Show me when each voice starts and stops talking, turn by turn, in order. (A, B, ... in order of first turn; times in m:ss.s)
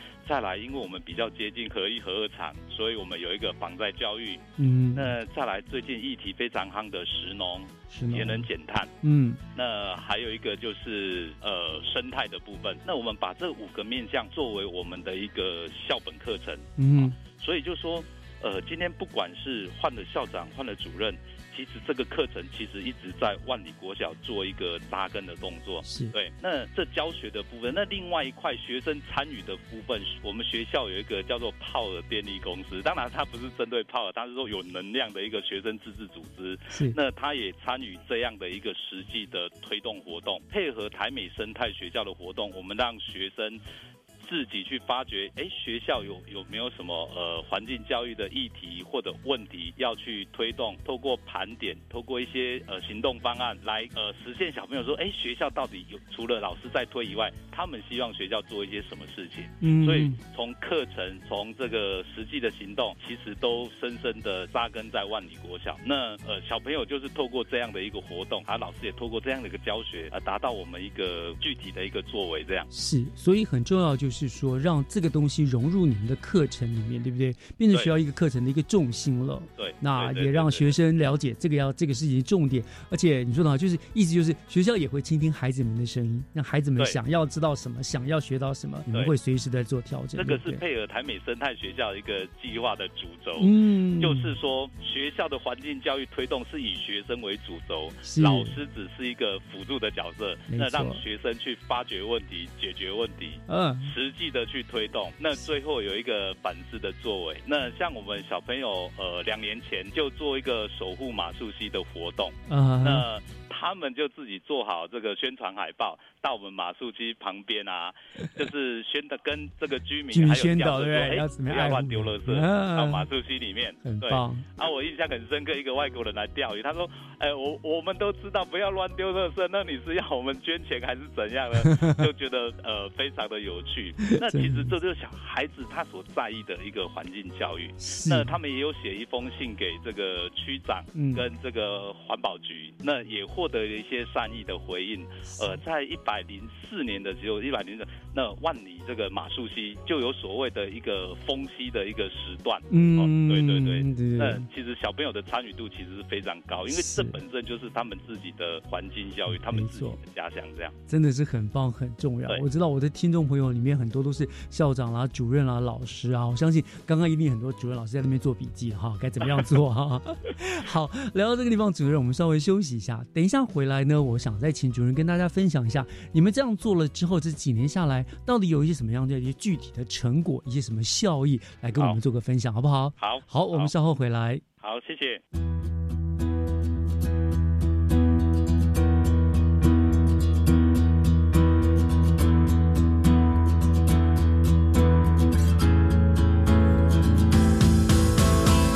0:00.2-0:08.9 A
0:04.6-0:05.1 B
0:07.9-0:08.4 B
0:09.0-0:09.4 B
0:09.5-0:43.6 A
0:16.8-0:17.2 B
0:25.8-0:26.1 B
0:36.7-0:37.0 B
0:44.2-1:12.7 A
0:59.6-1:00.2 B
1:12.7-1:30.6 B
1:19.6-1:20.7 A
1:30.2-2:40.7 A
1:33.4-1:34.4 B
1:38.0-1:38.6 B
1:40.5-1:41.0 B
1:43.5-1:43.9 B
1:52.5-1:53.0 B
2:00.1-2:03.1 B
2:03.8-2:04.4 B
2:11.6-2:12.1 B
2:14.0-2:14.7 B
2:17.8-2:18.4 B
2:20.9-2:21.2 B
2:25.3-2:25.6 B
2:32.7-2:34.5 B
2:36.7-2:37.2 B
2:39.3-2:40.0 B
2:40.9-3:04.4 B
3:03.0-3:03.7 A
3:04.6-3:05.2 A